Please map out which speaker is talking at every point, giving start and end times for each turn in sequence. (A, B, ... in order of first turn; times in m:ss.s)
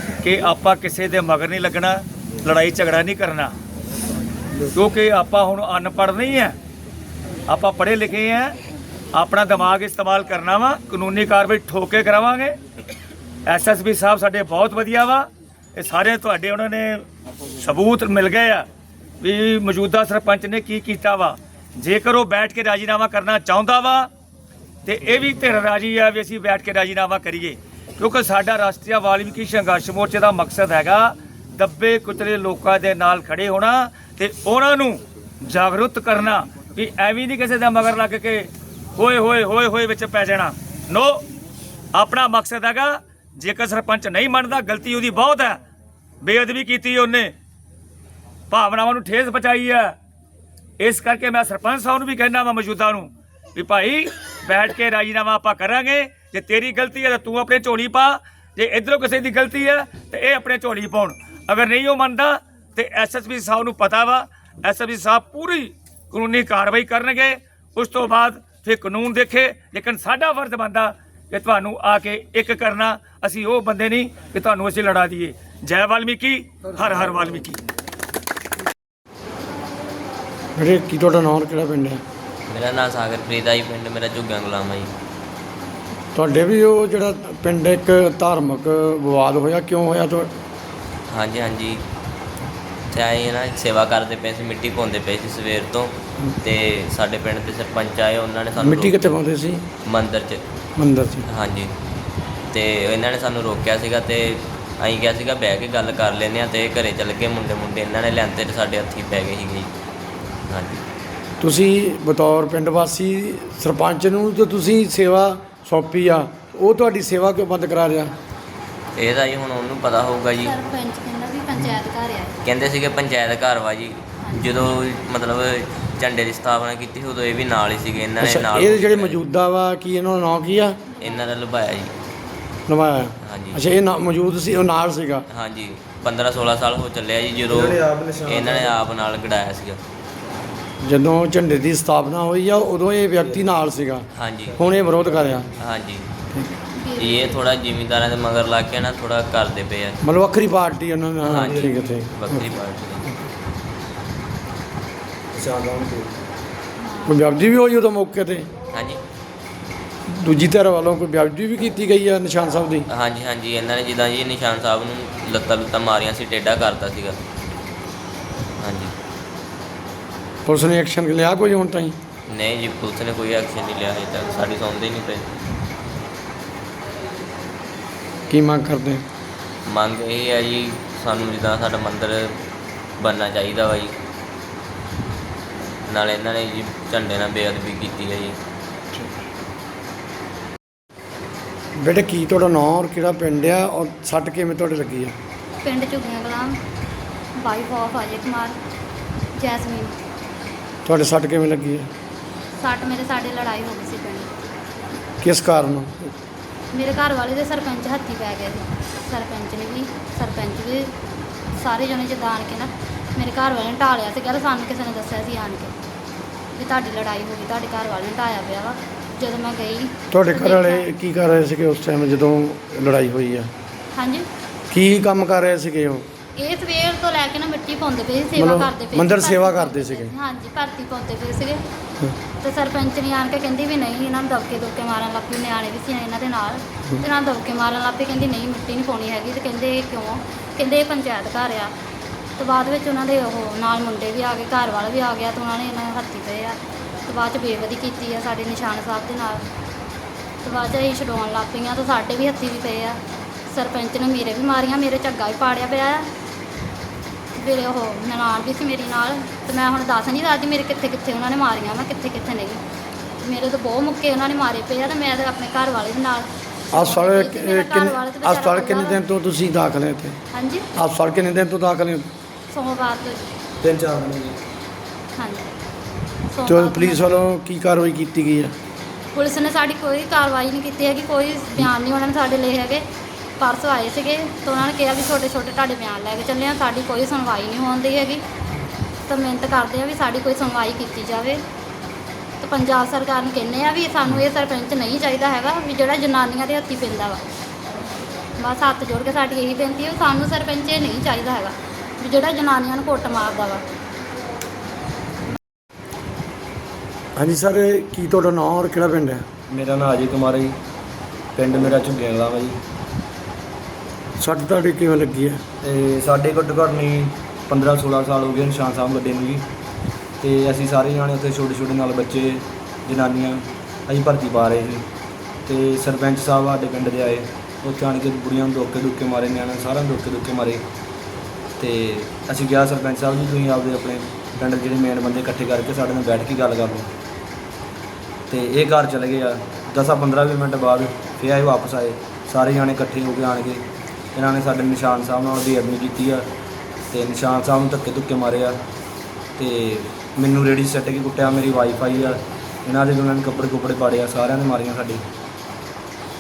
0:00.2-0:03.5 A
0:04.7-0:06.6 A
0:07.5-0:08.5 A
0:09.1-0:12.5 A
0:13.5-0:17.0 A
0:17.6-0:18.6 A
0:19.2-0:24.1 A
0:24.8-0:41.2 A
0:41.9-0:45.6 A
0:46.2-0:47.3 A
0:48.5-0:50.0 A
0:50.8-1:17.6 A
1:20.6-1:22.0 B
1:22.5-1:24.9 C
1:26.1-1:30.3 B
1:31.1-1:31.8 C
1:32.9-1:39.2 C
1:38.6-1:39.7 B
1:39.8-1:40.4 C
1:40.8-1:41.3 B
1:41.3-1:41.7 C
1:42.5-1:49.7 C
1:50.5-1:50.8 C
1:51.4-1:58.1 B
1:59.0-2:00.5 C
2:00.4-2:02.4 D
2:02.4-2:09.2 C
2:04.2-2:04.5 D
2:08.2-2:10.8 B
2:11.0-2:11.9 C
2:12.7-2:15.3 B
2:13.2-2:13.6 C
2:15.3-2:19.8 C
2:17.5-2:18.8 E
2:20.8-2:25.5 B
2:23.2-2:23.6 E
2:24.2-2:24.5 C
2:24.5-2:25.4 E
2:25.6-2:26.1 C
2:26.8-2:27.4 D
2:27.0-2:29.9 C
2:30.0-2:32.5 B
2:31.3-2:33.0 C
2:31.3-2:32.6 E
2:35.3-2:36.2 E
2:36.8-2:37.2 D
2:37.0-2:38.5 B
2:38.7-2:39.0 C
2:40.1-2:42.8 B
2:42.9-2:47.2 C
2:48.6-2:48.9 C
2:50.4-2:52.0 B
2:52.3-2:55.2 C
2:58.3-2:59.0 B
2:59.7-3:02.3 C
3:03.0-3:03.9 C
3:05.9-3:08.4 C
3:11.8-3:15.2 B
3:15.6-3:16.6 D
3:17.4-3:18.6 D
3:19.4-3:19.9 D
3:20.8-3:21.9 B
3:22.6-3:24.3 D
3:25.2-3:26.1 B
3:26.7-3:30.9 D
3:31.6-3:35.7 D
3:36.6-3:40.8 D
3:40.1-3:43.5 B
3:44.0-3:44.3 D
3:44.7-3:46.1 B
3:46.4-3:51.6 D
3:48.4-3:50.1 B
3:52.4-4:01.7 D
4:02.4-4:09.4 D
4:10.4-4:16.1 D
4:17.4-4:22.6 D
4:23.2-4:29.0 D
4:26.7-4:30.2 B
4:30.3-4:30.6 D
4:30.8-4:32.1 B
4:32.5-4:33.3 D
4:33.6-4:34.4 E
4:35.2-4:35.5 D
4:36.3-4:37.1 D
4:36.5-4:38.5 B
4:39.1-4:42.8 D
4:43.4-4:48.2 D
4:49.1-4:51.4 D
4:52.4-4:57.2 D
4:58.4-5:03.6 D
5:07.2-5:09.2 B
5:09.5-5:10.6 E
5:11.4-5:12.6 E
5:14.2-5:15.4 B
5:15.6-5:19.4 E
5:20.2-5:24.8 E
5:25.5-5:30.6 E
5:31.6-5:36.9 E
5:38.3-5:43.6 E
5:44.1-5:46.2 E
5:46.9-5:48.6 E
5:49.4-5:55.0 E